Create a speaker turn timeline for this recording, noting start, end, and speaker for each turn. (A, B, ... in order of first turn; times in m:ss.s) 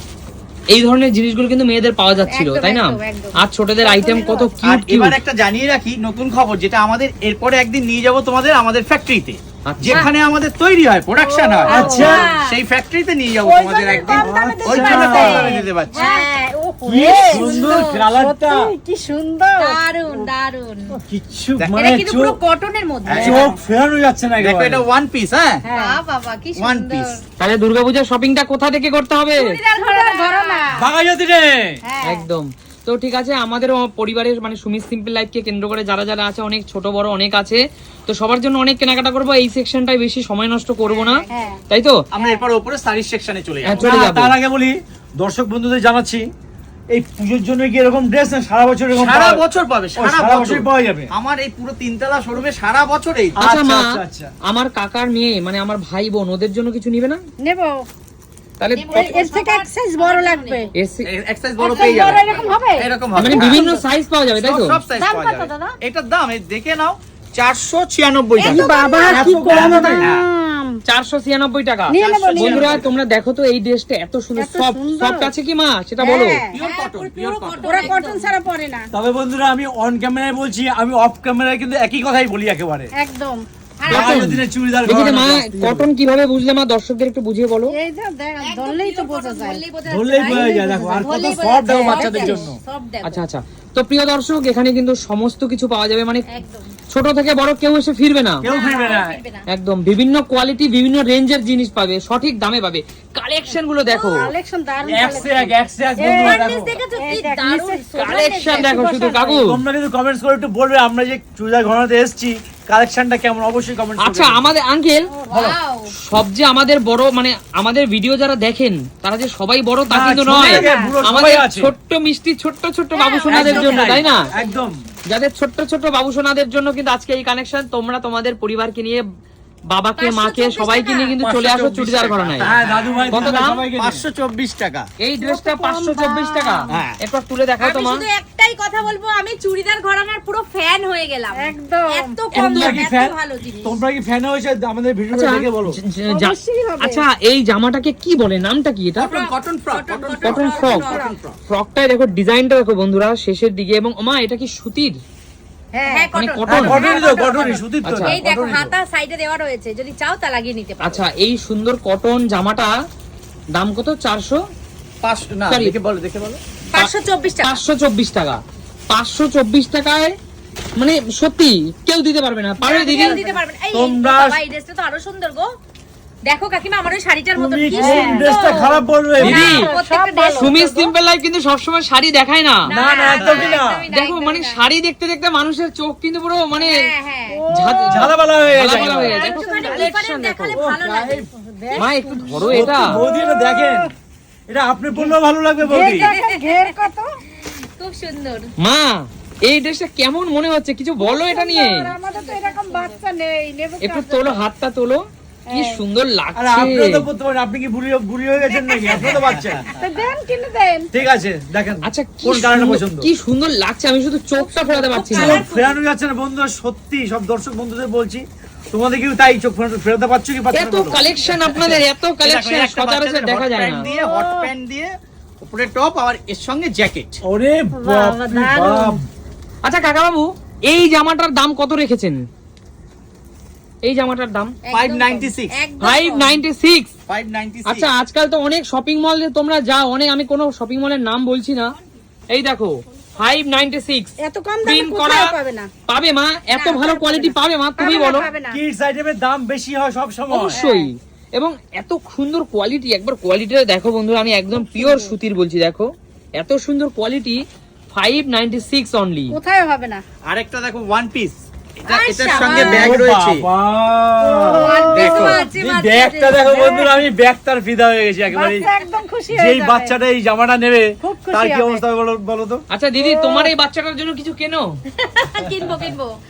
0:00.7-0:05.2 A
0:02.3-0:03.4 B
0:03.8-0:04.6 C
0:04.6-0:16.1 D
0:09.7-0:10.1 A
0:11.2-0:12.2 C
0:11.7-0:12.3 E
0:11.7-0:12.5 B
0:13.4-0:19.8 C
0:14.1-0:15.5 E
0:16.0-0:16.4 B
0:16.8-0:18.7 E
0:17.1-0:18.0 B
0:19.6-0:21.0 B
0:21.1-0:22.4 E
0:21.8-0:23.4 B
0:23.1-0:23.5 D
0:23.2-0:23.6 C
0:23.2-0:24.8 E
0:24.4-0:25.6 D
0:25.6-0:26.0 C
0:25.7-0:27.2 B
0:26.6-0:27.1 D
0:27.4-0:29.4 A
0:29.4-0:30.6 B
0:29.8-0:30.7 C
0:30.8-0:31.8 E
0:31.9-0:32.3 C
0:32.0-0:42.0 A
0:41.3-0:41.6 C
0:42.1-0:43.9 D
0:43.6-0:44.3 A
0:43.8-0:46.2 E
0:46.9-0:49.4 E
0:49.0-0:53.4 D
0:50.0-0:51.1 E
0:53.4-0:54.3 E
0:53.4-0:53.8 A
0:54.5-0:57.2 A
0:57.4-0:57.9 C
0:58.6-0:59.0 A
0:58.8-1:00.7 B
0:58.9-1:00.7 C
1:00.8-1:01.1 A
1:01.1-1:03.7 D
1:01.6-1:03.8 C
1:01.6-1:02.6 B
1:03.2-1:04.8 A
1:04.4-1:10.3 D
1:05.0-1:05.8 C
1:08.4-1:10.8 C
1:08.5-1:09.1 B
1:09.1-1:10.1 E
1:10.9-1:16.4 A
1:11.9-1:12.9 C
1:12.0-1:12.9 D
1:14.4-1:15.3 C
1:16.0-1:16.6 C
1:16.5-1:17.9 D
1:16.6-1:18.3 B
1:17.6-1:18.9 C
1:18.9-1:22.9 E
1:23.0-1:23.4 C
1:23.8-1:24.3 B
1:23.9-1:27.8 A
1:23.9-1:25.9 E
1:27.7-1:29.6 C
1:28.4-1:33.2 B
1:29.9-1:32.5 E
1:30.2-1:31.2 C
1:31.7-1:32.5 C
1:33.0-1:36.3 A
1:36.3-1:36.7 B
1:36.9-1:38.4 A
1:38.4-1:39.2 E
1:38.4-1:39.4 B
1:39.5-1:44.3 A
1:43.8-1:44.2 B
1:44.1-1:47.9 C
1:44.9-1:46.7 E
1:46.0-1:48.8 B
1:48.0-1:49.6 A
1:48.5-1:49.5 C
1:49.4-1:54.5 E
1:54.0-1:55.1 A
1:55.1-1:55.5 C
1:55.3-1:55.9 B
1:56.1-2:04.2 A
1:59.9-2:01.7 E
2:00.5-2:01.0 C
2:03.0-2:04.0 B
2:03.3-2:04.7 E
2:05.1-2:09.0 A
2:09.7-2:12.6 A
2:10.0-2:11.1 B
2:11.2-2:14.9 D
2:12.4-2:14.0 E
2:13.1-2:13.7 A
2:15.0-2:18.0 A
2:15.2-2:16.7 C
2:16.7-2:17.0 D
2:17.6-2:23.8 B
2:21.3-2:22.3 C
2:22.3-2:25.8 E
2:22.4-2:22.7 A
2:25.1-2:29.2 A
2:26.1-2:27.1 C
2:29.0-2:31.4 D
2:29.1-2:31.1 B
2:30.2-2:30.9 A
2:31.5-2:35.0 A
2:35.7-2:36.1 C
2:35.9-2:41.0 B
2:36.1-2:36.9 A
2:36.5-2:38.7 E
2:37.8-2:38.2 A
2:40.8-2:42.7 A
2:43.6-2:44.4 A
2:45.0-2:46.9 D
2:45.5-2:45.8 A
2:46.7-2:47.6 B
2:47.4-2:50.2 A
2:50.8-2:53.2 A
2:52.6-2:55.5 B
2:52.7-2:53.4 C
2:53.7-2:54.4 E
2:56.3-3:00.5 B
2:57.4-2:59.6 E
2:57.7-2:58.3 C
2:59.2-3:00.9 C
2:59.2-2:59.7 A
3:00.4-3:02.7 A
3:02.7-3:04.6 B
3:02.7-3:03.8 E
3:03.1-3:03.5 D
3:03.9-3:06.8 A
3:06.6-3:07.4 B
3:07.3-3:08.2 C
3:07.5-3:10.6 A
3:07.9-3:09.2 E
3:08.7-3:09.9 C
3:09.1-3:11.2 B
3:10.6-3:11.2 E
3:11.1-3:13.9 C
3:11.8-3:13.0 A
3:12.4-3:13.9 E
3:14.5-3:16.1 E
3:14.9-3:17.1 C
3:15.9-3:16.8 B
3:17.4-3:18.4 B
3:18.6-3:21.8 A
3:21.0-3:24.4 C
3:22.0-3:23.0 B
3:23.8-3:25.0 A
3:25.5-3:25.8 C
3:25.5-3:27.0 A
3:26.4-3:29.6 E
3:28.5-3:29.1 B
3:28.9-3:30.0 D
3:29.7-3:30.9 C
3:30.9-3:33.1 E
3:31.9-3:35.4 A
3:34.4-3:35.8 B
3:35.1-3:41.0 E
3:40.5-3:43.9 A
3:41.5-3:44.9 D
3:43.8-3:44.5 C
3:45.4-3:47.2 D
3:47.2-3:49.0 E
3:47.7-3:49.0 C
3:49.6-3:52.2 A
3:53.8-3:54.5 A
3:54.7-3:56.4 B
3:54.7-3:55.5 D
3:55.8-3:56.9 A
3:57.1-3:57.9 D
3:57.7-4:01.7 A
4:02.3-4:05.3 A
4:04.2-4:05.7 C
4:05.9-4:08.3 A
4:06.5-4:07.3 B
4:07.8-4:08.6 C
4:08.5-4:10.6 E
4:10.3-4:15.9 A
4:10.5-4:10.9 C
4:14.7-4:15.1 C
4:16.4-4:17.4 A
4:17.9-4:19.4 A
4:19.3-4:20.0 C
4:20.2-4:23.4 D
4:21.9-4:23.0 B
4:22.4-4:24.7 E
4:24.2-4:25.4 C
4:24.6-4:26.9 B
4:24.9-4:25.4 D
4:25.5-4:28.7 E
4:26.5-4:26.9 C
4:28.3-4:30.0 C
4:29.3-4:32.6 E
4:31.0-4:31.8 C
4:32.7-4:34.7 A
4:33.0-4:33.5 C
4:35.0-4:36.1 B